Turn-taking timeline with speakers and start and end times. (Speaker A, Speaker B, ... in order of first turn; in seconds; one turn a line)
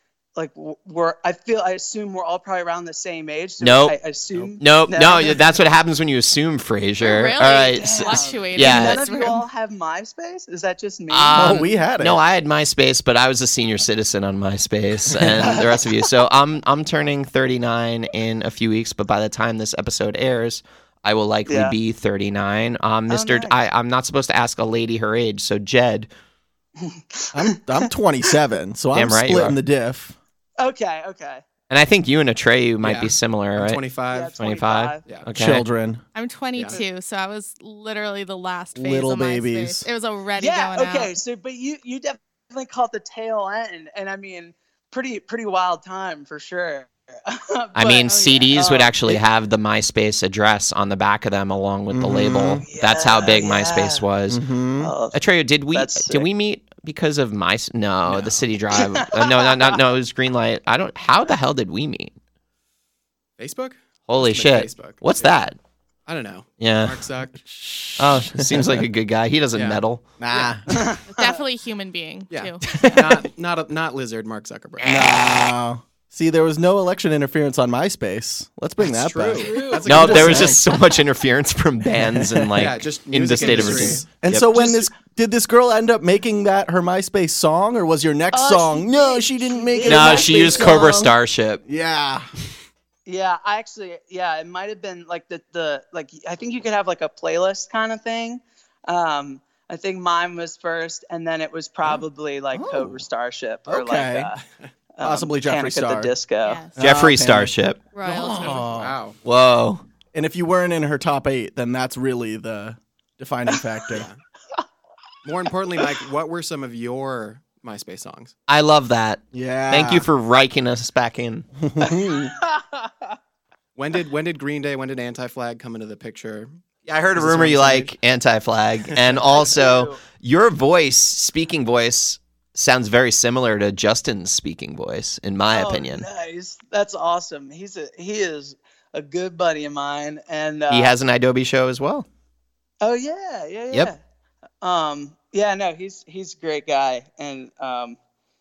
Speaker A: 0.4-5.4
Speaker B: 3.6-4.0
Speaker B: 4.6-9.1
Speaker C: 7.0-9.4
Speaker A: 7.8-11.7
Speaker B: 11.1-26.1
Speaker D: 11.3-12.2
Speaker A: 15.4-15.8
Speaker A: 21.5-21.8
Speaker A: 23.1-23.6
Speaker A: 26.8-27.9
Speaker D: 27.3-30.2
Speaker B: 28.9-29.6
Speaker A: 30.6-31.4
Speaker B: 31.7-33.9
Speaker E: 32.8-34.4
Speaker A: 34.1-35.0
Speaker B: 34.4-35.6
Speaker D: 35.4-36.0
Speaker C: 36.1-41.1
Speaker D: 38.8-39.9
Speaker A: 40.4-49.2
Speaker B: 47.8-54.4
Speaker C: 48.1-48.5
Speaker D: 51.9-52.6
Speaker A: 52.7-54.0
Speaker D: 54.3-54.9
Speaker A: 54.8-55.2
Speaker B: 55.1-62.1
Speaker A: 55.7-56.3
Speaker E: 58.1-58.4
Speaker A: 58.9-59.8
Speaker E: 63.4-65.5
Speaker B: 64.1-65.6
Speaker E: 66.1-67.4
Speaker B: 66.6-67.0
Speaker D: 67.4-68.8
Speaker B: 68.0-70.0
Speaker E: 69.5-70.6
Speaker D: 70.2-70.7
Speaker C: 71.1-72.6
Speaker E: 72.3-75.3
Speaker D: 74.8-80.6
Speaker E: 78.8-80.6
Speaker C: 79.5-79.8
Speaker A: 79.5-80.1
Speaker B: 79.8-84.9
Speaker D: 82.0-82.7
Speaker E: 82.6-84.1
Speaker D: 83.4-91.1
Speaker A: 88.3-91.0
Speaker B: 89.9-91.6
Speaker D: 91.7-92.3
Speaker A: 93.1-104.4
Speaker D: 102.5-103.0
Speaker D: 103.7-104.3
Speaker A: 105.0-106.6
Speaker D: 105.0-106.1
Speaker C: 106.4-106.8
Speaker D: 106.8-107.5
Speaker B: 106.8-107.8
Speaker C: 108.0-108.6
Speaker D: 108.0-108.9
Speaker E: 108.1-109.2
Speaker B: 109.2-109.8
Speaker D: 110.1-114.1
Speaker E: 114.0-114.2
Speaker E: 115.2-118.3
Speaker B: 118.5-121.5
Speaker D: 119.3-120.1
Speaker D: 121.6-122.3
Speaker A: 121.8-123.2
Speaker E: 123.8-126.6
Speaker B: 126.9-136.1
Speaker E: 127.2-127.9
Speaker A: 129.3-130.0
Speaker A: 135.5-140.9
Speaker B: 140.7-142.1
Speaker A: 142.8-144.0
Speaker A: 144.6-148.0